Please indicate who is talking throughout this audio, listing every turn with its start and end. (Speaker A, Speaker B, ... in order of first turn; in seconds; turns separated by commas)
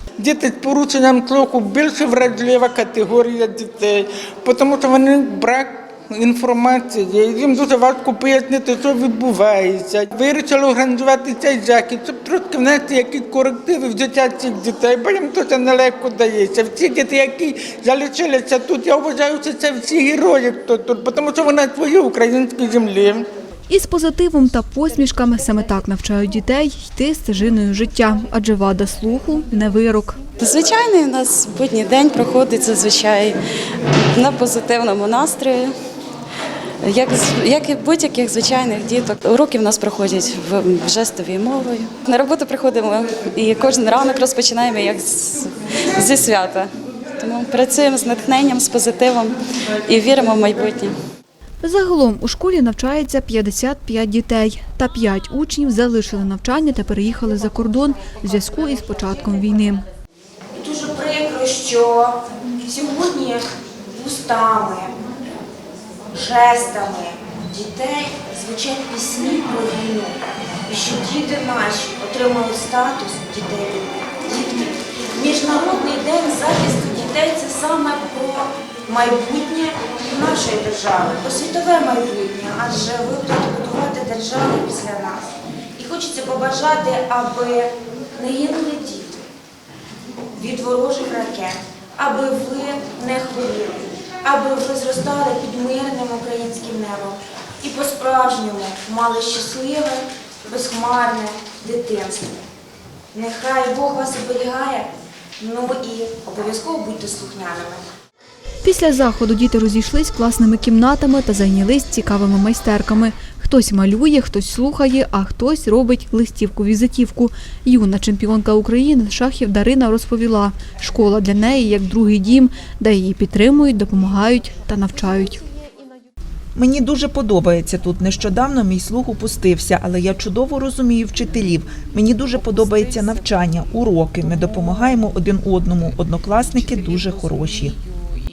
Speaker A: 0.2-23.3, Speaker B: 23.7-30.2, Speaker C: 30.4-33.4, Speaker C: 34.1-35.7, Speaker C: 36.8-50.9, Speaker B: 51.6-59.8, Speaker D: 60.5-64.9, Speaker D: 66.1-89.2, Speaker D: 90.4-102.4, Speaker D: 103.1-104.9, Speaker D: 105.4-107.8, Speaker B: 108.6-125.4, Speaker E: 126.6-137.8